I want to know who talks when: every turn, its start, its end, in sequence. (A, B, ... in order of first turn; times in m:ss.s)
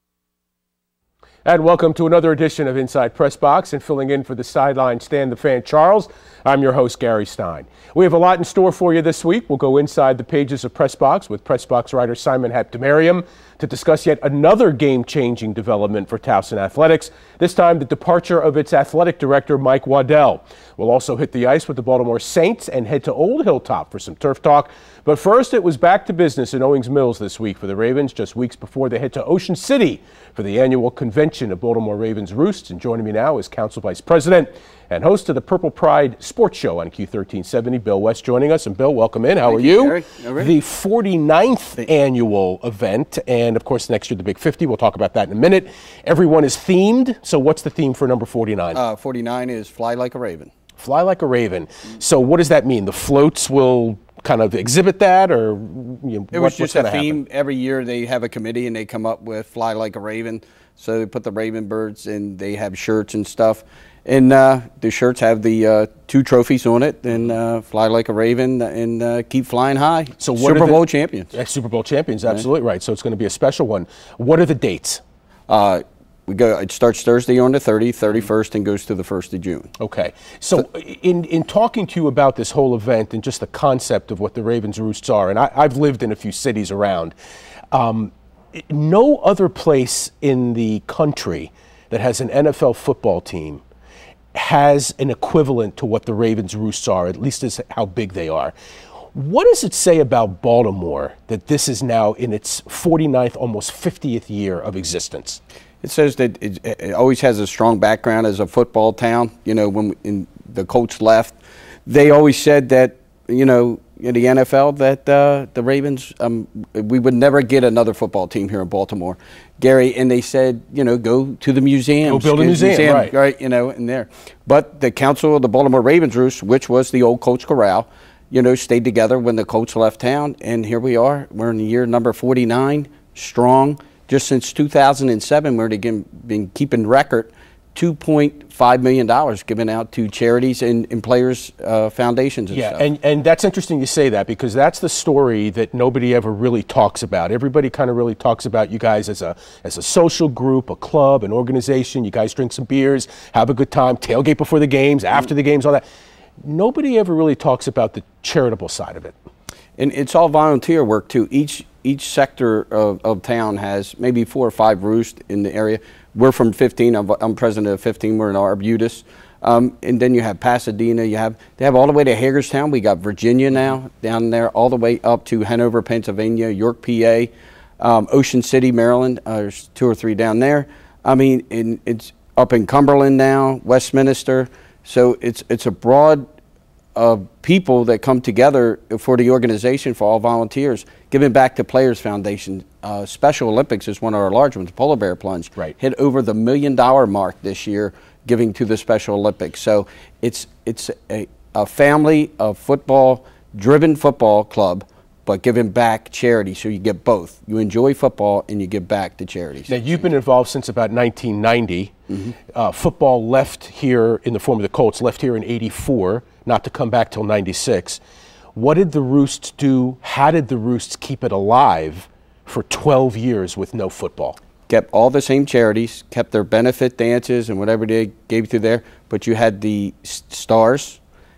0:01.4-0:48.8 A
0:39.5-0:40.5 B
0:48.7-0:50.5 B
0:50.8-0:57.2 A
0:56.3-1:11.3 B
1:10.2-1:10.8 A
1:11.3-1:15.0 A
1:15.5-1:19.7 B
1:19.8-1:27.1 A
1:27.7-1:33.6 A
1:34.3-1:38.5 A
1:39.1-1:45.4 A
1:45.8-2:22.8 B
2:02.0-2:03.1 A
2:22.5-2:35.8 A
2:36.4-2:39.1 A
2:39.8-3:06.2 B
3:06.9-3:30.0 B
3:29.7-3:31.9 A
3:32.5-3:38.0 A
3:38.5-3:44.4 A
3:44.7-3:51.0 B